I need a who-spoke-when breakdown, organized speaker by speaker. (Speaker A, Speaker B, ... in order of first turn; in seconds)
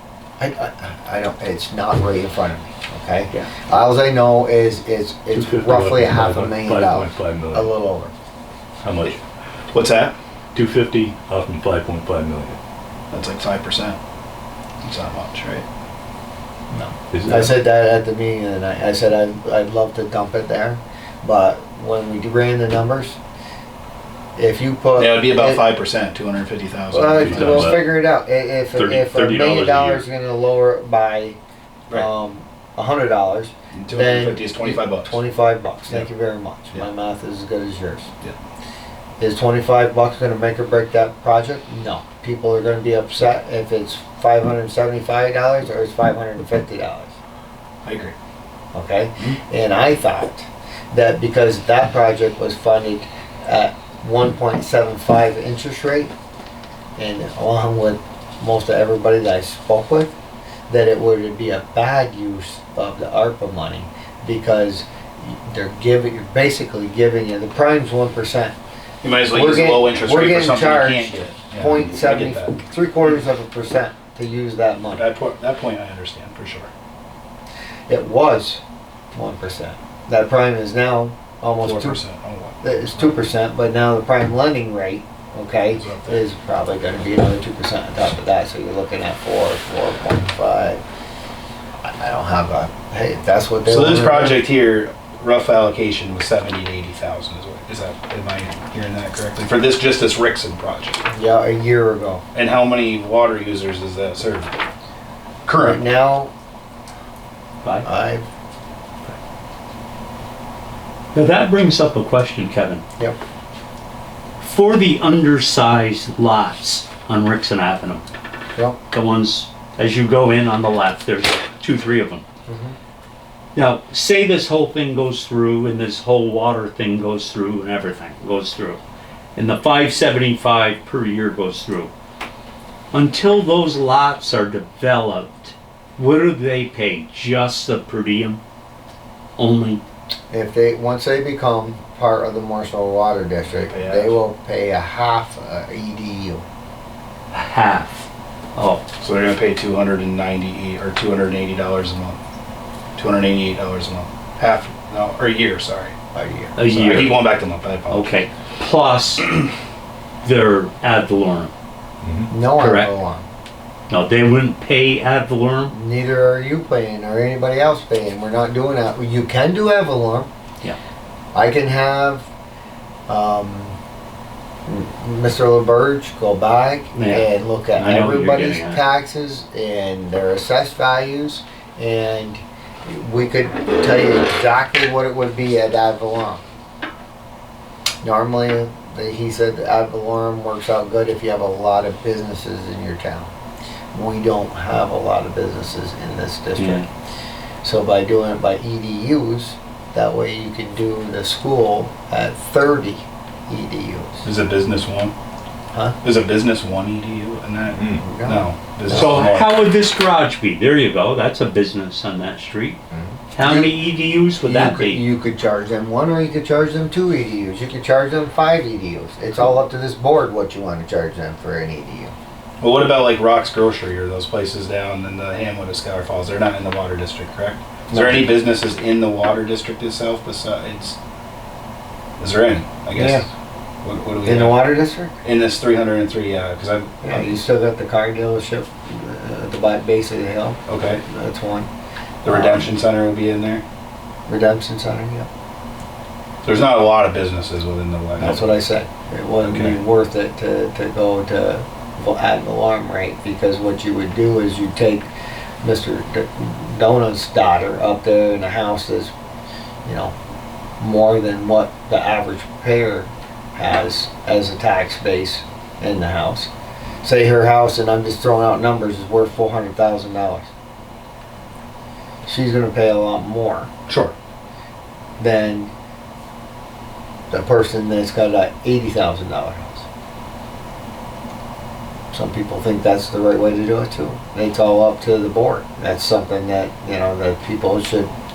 Speaker A: 0.4-8.1, 16.7-23.2, 24.4-25.7, 26.9-31.4, 31.9-38.1, 39.2-47.2, 48.7-56.1, 57.0-60.1, 60.7-68.5, 69.3-75.0, 77.9-78.6, 79.1-82.0, 82.6-90.8, 91.8-94.5, 101.1-102.2, 105.6-106.3, 107.8-108.3, 122.5-122.8, 140.3-146.4, 156.1-157.2, 162.3-163.3, 165.7-170.3, 171.3-172.3, 173.1-173.8, 174.7-186.4, 188.0-193.3, 193.9-196.9, 197.6-204.2, 205.7-206.0, 207.8-209.1, 213.0-213.8, 214.4-222.1, 227.9-228.3, 232.9-233.3, 234.2-235.2, 237.0-241.7, 242.2-242.7, 244.3-245.3, 248.2-255.1, 255.6-259.1, 259.9-260.1, 260.8-266.5, 267.0-270.5, 272.2-273.7, 275.2-275.7, 277.3-279.9, 282.1-288.1
Speaker B: 5.3-7.7, 8.8-9.2, 10.5-12.6, 17.1-17.5, 27.2-27.9, 28.8-30.0
Speaker C: 9.7-10.2, 13.1-14.0, 14.8-15.7, 25.0-27.7, 33.8-35.2, 47.8-48.1, 69.0-72.6, 75.0-76.7, 81.6-83.2, 85.8-86.2, 93.6-101.0, 102.3-104.5, 105.5-105.8, 143.5-144.2, 149.0-152.2, 153.0-155.9, 156.7-158.1, 204.2-205.1, 206.0-209.6, 222.6-231.0, 232.2-233.2, 233.8-234.6, 235.2-237.3, 240.7-241.0, 242.2-243.6, 246.4-248.5, 249.4-249.8, 273.9-274.1
Speaker D: 111.1-112.8, 114.4-118.0, 118.9-122.2, 123.5-128.8, 129.3-131.9, 132.9-138.4, 139.4-139.8, 147.3-148.8, 156.6-157.2, 157.9-159.4, 160.2-161.5, 162.6-162.9, 163.9-165.7, 176.9-178.8, 196.6-196.9, 208.9-212.8, 213.3-215.0